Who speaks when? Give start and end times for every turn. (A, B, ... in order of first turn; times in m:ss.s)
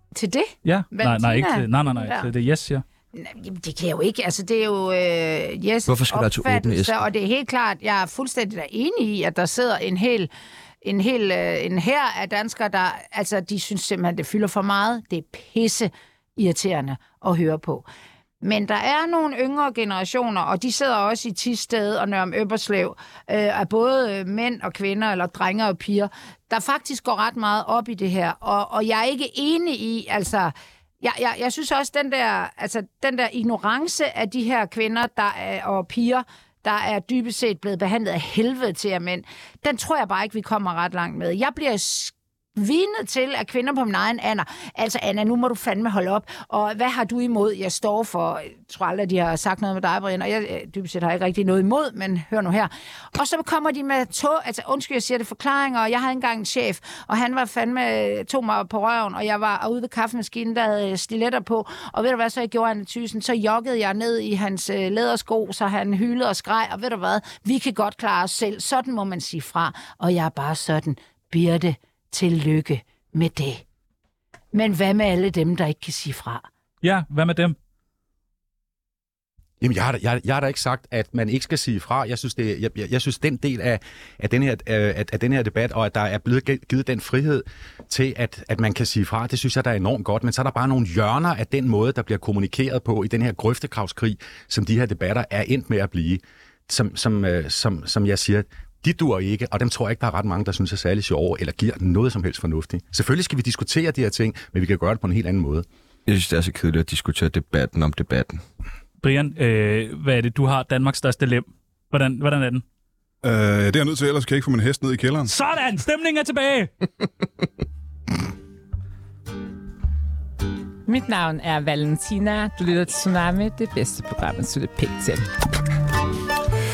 0:00.2-0:02.3 A
0:00.6-0:02.8 B
0:03.2-0:10.3 A
0:05.9-0:07.0 C
0:10.8-0:17.9 A
0:18.4-1:13.6 A
1:14.5-1:16.5 A
1:16.8-1:17.6 B
1:19.6-1:45.7 D
1:46.1-1:48.4 C
1:49.0-1:52.6 B
1:53.2-1:55.3 E
1:55.3-1:56.7 B
2:00.9-2:05.3 F